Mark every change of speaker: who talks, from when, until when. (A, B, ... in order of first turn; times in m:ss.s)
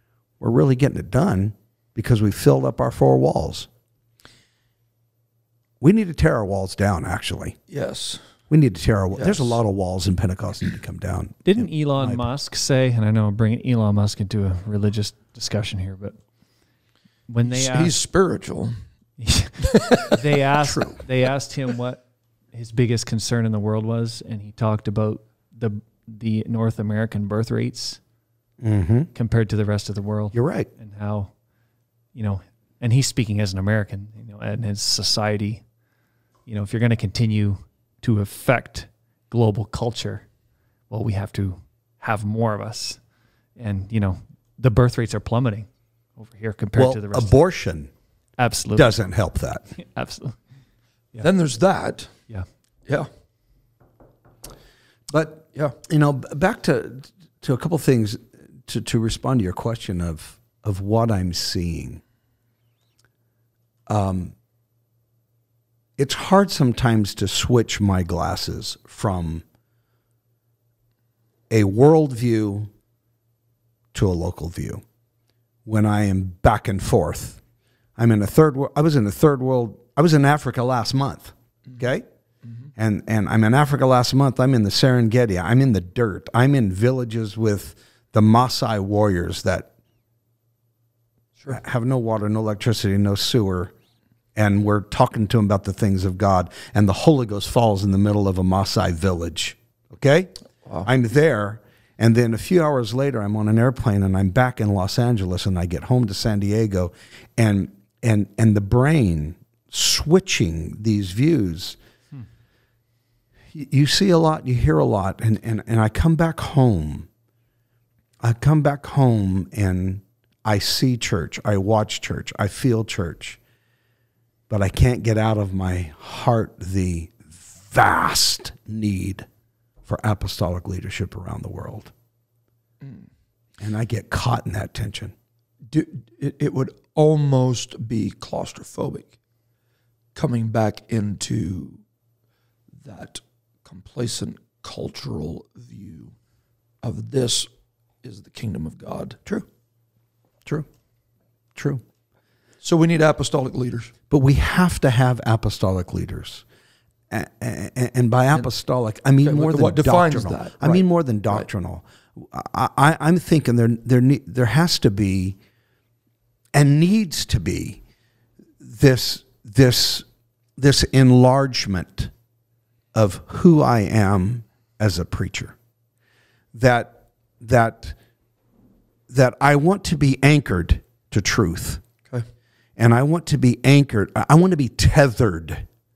0:00.4-0:03.7 A
0:05.8-0:07.6 A
0:07.7-0:08.2 B
0:08.5-0:12.2 A
0:09.1-0:09.6 B
0:11.5-0:16.2 C
0:17.3-0:17.9 C
0:17.5-0:18.8 B
0:19.2-0:28.0 C
0:19.6-0:20.2 B
0:20.6-0:21.0 A
0:28.6-0:29.1 A
0:29.1-0:31.3 C
0:30.3-0:30.7 A
0:32.1-0:35.6 C
0:36.5-0:40.3 C
0:40.9-0:43.0 C
0:43.6-0:47.3 C
0:46.8-0:47.9 A
0:48.4-0:48.9 C
0:48.8-0:49.6 A
0:49.8-0:50.4 C
0:51.2-0:52.2 B
0:55.1-1:02.0 A
1:03.9-1:04.3 A
1:06.0-1:09.4 A
1:11.5-1:12.7 A
1:13.9-1:14.8 A
1:15.7-1:17.4 A
1:18.0-1:22.1 A
1:22.8-1:29.7 A
1:31.5-1:33.7 A
1:34.4-1:40.3 A
1:40.8-1:51.8 A
1:53.5-1:57.1 A
1:58.2-2:03.4 A
2:04.5-2:09.3 A
2:09.9-2:11.9 A
2:12.8-2:13.1 B
2:13.6-2:15.1 A
2:15.7-2:19.1 B
2:20.2-2:21.8 B
2:22.8-2:26.1 B
2:26.8-2:27.5 B
2:28.0-2:29.3 B
2:31.6-2:31.8 A
2:32.6-2:33.9 B
2:34.1-2:36.4 A
2:37.1-2:45.4 A
2:39.2-2:41.5 B
2:46.5-2:47.8 A
2:48.6-2:50.0 A
2:50.6-2:52.1 A
2:52.9-2:55.6 A
2:56.5-2:58.0 A
2:59.1-3:01.8 A
3:02.8-3:05.7 A